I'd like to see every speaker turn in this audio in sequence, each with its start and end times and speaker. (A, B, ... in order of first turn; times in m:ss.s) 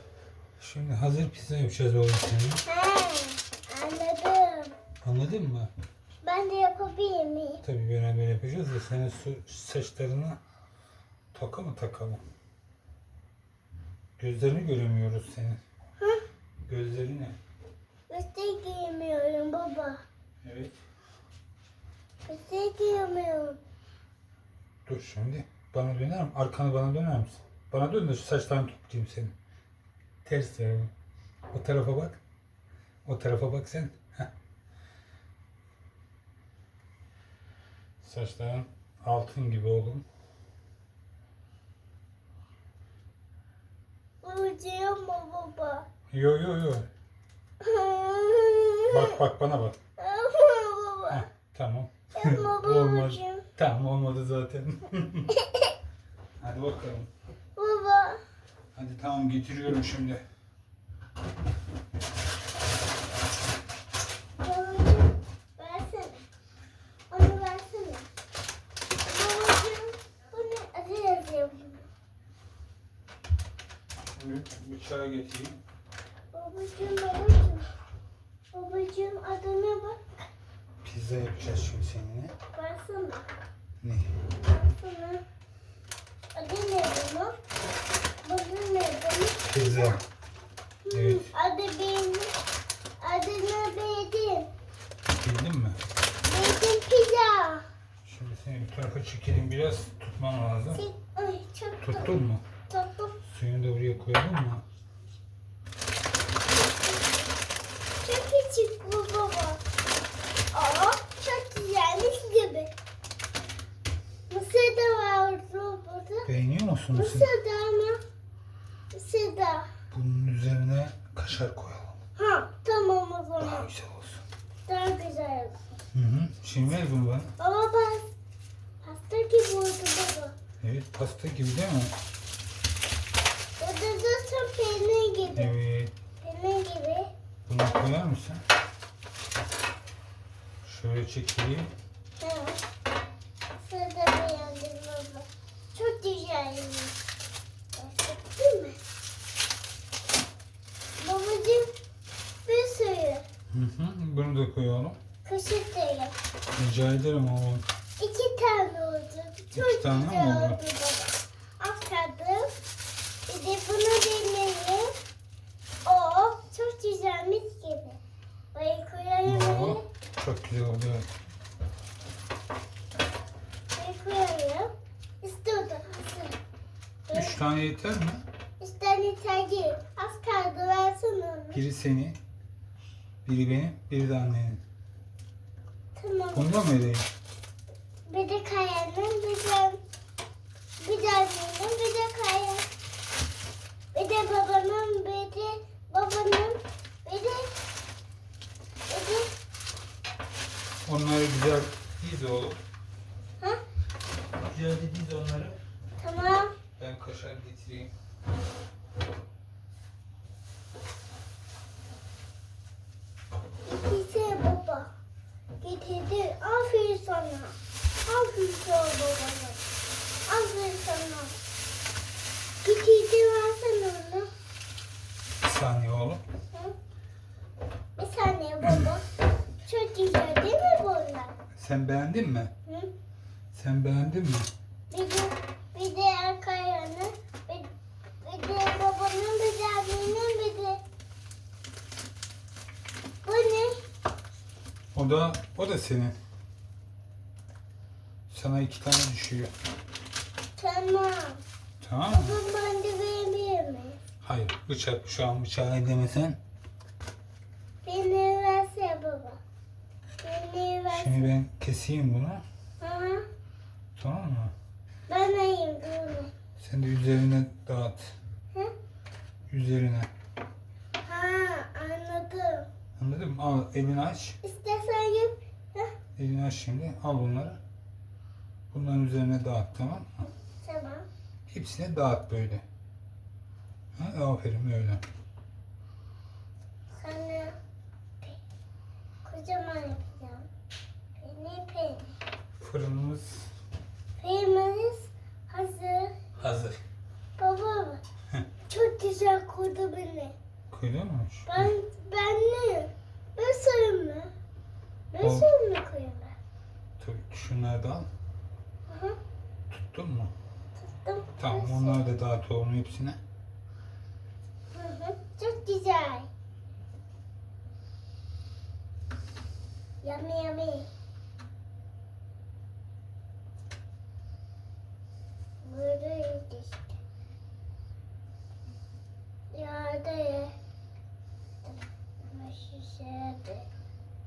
0:00.6-0:02.6 A
0:02.6-0:04.7 B
0:05.0-0:05.7 A
0:06.2-0:07.6 B
0:07.6-0:10.4 A
0:11.3-0:12.2 A
0:14.2-0:15.6 A
0:16.7-0:17.4 A
0:18.1-0:20.0 B
0:20.4-0:20.7 A
0:22.2-0:23.6 B
0:24.8-0:29.3 A
0:30.2-0:30.9 A
0:31.5-0:32.2 A
0:33.0-0:34.3 A
0:38.0-0:40.0 A
0:44.2-0:45.9 B
0:46.1-0:46.9 A
0:47.6-0:49.2 B
0:48.9-0:49.8 A
0:50.0-0:51.2 B
0:51.1-0:55.3 A
0:52.1-0:53.4 B
0:55.3-0:55.7 B
0:56.4-0:57.1 A
0:57.6-0:58.2 B
0:58.7-1:00.2 A
1:04.4-1:06.2 B
1:07.1-1:08.0 B
1:09.0-1:11.9 B
1:14.2-1:15.6 A
1:16.3-1:17.7 B
1:18.5-1:20.1 B
1:20.8-1:22.3 A
1:22.5-1:23.3 B
1:23.8-1:24.2 A
1:24.4-1:25.2 B
1:26.3-1:27.4 B
1:28.2-1:30.0 B
1:29.5-1:30.0 A
1:30.8-1:32.3 B
1:30.9-1:31.3 A
1:33.0-1:34.5 B
1:35.1-1:35.8 A
1:36.2-1:37.6 B
1:38.0-1:40.8 A
1:40.7-1:42.1 B
1:41.8-1:42.4 A
1:42.7-1:43.2 B
1:43.2-1:44.6 A
1:48.0-1:49.6 B
1:50.5-1:52.7 B
1:54.3-1:56.3 B
1:56.2-1:57.3 A
1:56.9-1:58.0 B
1:58.9-1:59.7 B
1:59.9-2:02.0 A
2:02.2-2:03.7 B
2:03.4-2:04.2 A
2:04.6-2:05.6 B
2:05.9-2:07.3 A
2:07.4-2:08.1 B
2:08.8-2:10.3 B
2:10.6-2:11.9 A
2:13.6-2:15.5 B
2:15.3-2:15.9 A
2:16.2-2:17.1 B
2:17.5-2:18.4 A
2:20.6-2:21.7 A
2:22.2-2:22.6 B
2:23.6-2:27.0 B
2:27.7-2:28.8 B
2:31.0-2:31.7 B
2:32.4-2:33.2 B
2:33.5-2:35.0 A
2:35.2-2:36.1 B
2:36.5-2:37.6 A
2:38.0-2:42.6 B
2:39.5-2:40.6 A
2:43.3-2:44.9 B
2:45.8-2:48.0 B
2:48.5-2:49.8 B
2:49.2-2:51.1 A
2:53.7-2:54.7 B
2:55.2-2:56.4 B
2:57.1-2:57.4 B
2:57.1-2:58.2 A
2:58.6-3:01.6 B
3:01.5-3:02.2 A
3:03.2-3:04.6 A
3:05.9-3:06.5 B
3:06.3-3:07.1 A
3:08.1-3:09.8 B
3:10.8-3:12.6 B
3:13.9-3:17.5 B
3:18.9-3:19.3 B
3:20.8-3:22.6 A
3:24.4-3:25.6 A
3:26.0-3:26.5 B
3:26.8-3:27.9 A
3:33.6-3:34.9 B
3:35.6-3:39.6 B
3:40.2-3:41.4 B
3:42.6-3:44.3 B
3:45.4-3:46.2 A
3:48.0-3:49.1 B
3:49.6-3:51.3 B
3:51.5-3:52.5 A
3:53.5-3:54.5 A
3:54.9-3:57.7 B
3:58.2-4:00.8 B
4:03.2-4:03.8 B
4:04.9-4:06.2 A
4:08.3-4:09.5 A
4:10.6-4:11.4 B
4:11.8-4:12.4 A
4:12.1-4:14.0 B
4:14.2-4:16.4 A
4:17.8-4:19.4 B
4:20.2-4:21.3 B
4:20.9-4:22.4 A
4:22.8-4:23.2 B
4:24.0-4:24.5 A
4:25.1-4:26.3 B
4:26.6-4:28.1 A
4:29.5-4:30.1 A
4:31.0-4:32.7 B
4:33.0-4:34.4 A
4:34.4-4:35.9 B
4:36.2-4:37.6 A
4:38.7-4:40.2 A
4:40.6-4:41.0 B
4:41.5-4:42.6 A
4:43.9-4:45.0 A
4:47.0-4:47.5 B
4:49.2-4:50.5 B
4:51.2-4:52.1 B
4:52.6-4:53.5 A
4:54.2-4:56.1 B
4:56.4-4:56.8 A
4:57.4-4:58.0 B
4:58.7-5:00.3 B
5:00.7-5:01.7 A
5:01.5-5:04.3 B
5:05.1-5:06.3 B
5:05.2-5:05.5 A
5:07.0-5:08.1 A
5:08.9-5:09.2 B
5:09.7-5:10.3 A
5:10.8-5:12.0 B
5:11.4-5:13.2 A
5:14.7-5:16.3 B
5:20.0-5:20.9 B
5:25.6-5:26.9 B
5:29.5-5:30.5 B
5:31.6-5:33.7 B